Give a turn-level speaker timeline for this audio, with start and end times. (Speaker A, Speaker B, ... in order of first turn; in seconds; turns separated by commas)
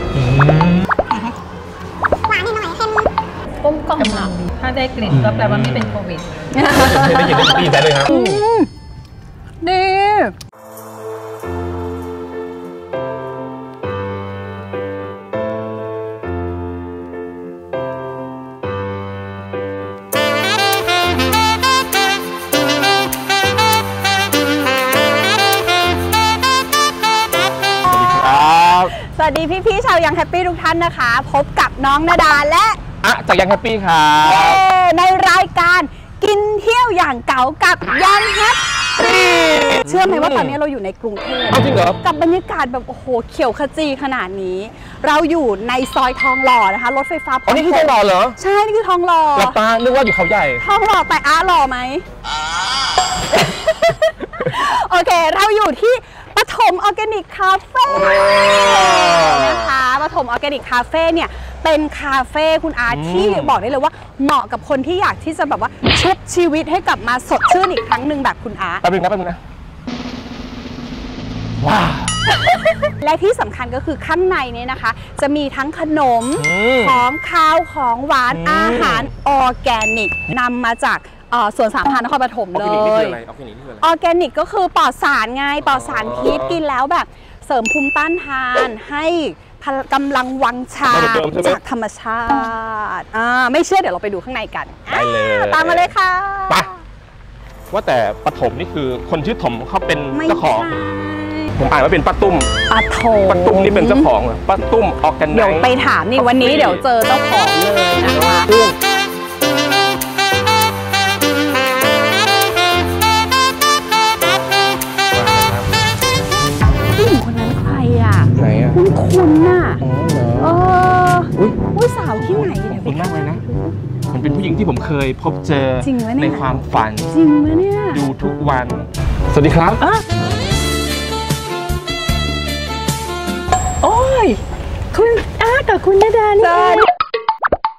Speaker A: 0.1-0.9, Speaker B: 2.4-2.9, Speaker B: 3.6-4.3, Speaker C: 4.0-6.3, Speaker A: 5.1-6.0, Speaker B: 6.5-8.7, Speaker A: 6.7-8.4, Speaker B: 9.6-10.3, Speaker A: 27.9-28.9, Speaker B: 28.9-32.8, Speaker A: 33.0-34.6, Speaker B: 34.2-49.6, Speaker A: 39.3-40.6, Speaker A: 41.5-42.0, Speaker A: 47.5-48.4, Speaker A: 49.3-50.6, Speaker B: 50.6-52.0, Speaker B: 53.3-68.8, Speaker A: 57.9-59.7, Speaker A: 62.9-63.6, Speaker A: 68.8-69.4, Speaker A: 71.6-72.3, Speaker B: 72.4-83.2, Speaker A: 76.3-77.1, Speaker A: 78.3-79.1, Speaker A: 82.5-83.9, Speaker B: 83.8-96.8, Speaker A: 85.6-86.6, Speaker A: 90.9-91.6, Speaker A: 94.9-95.9, Speaker A: 97.7-100.8, Speaker B: 100.1-101.5, Speaker A: 101.5-102.5, Speaker B: 102.7-104.1, Speaker A: 103.2-106.8, Speaker B: 105.3-108.5, Speaker A: 108.0-108.8, Speaker A: 115.1-115.8, Speaker B: 116.9-119.8, Speaker A: 118.3-118.8, Speaker A: 119.8-120.7, Speaker B: 120.4-123.7, Speaker A: 121.3-123.4, Speaker A: 124.1-127.1, Speaker B: 125.8-126.5, Speaker B: 127.1-128.0, Speaker A: 127.9-129.8, Speaker C: 133.8-136.9, Speaker B: 136.4-136.9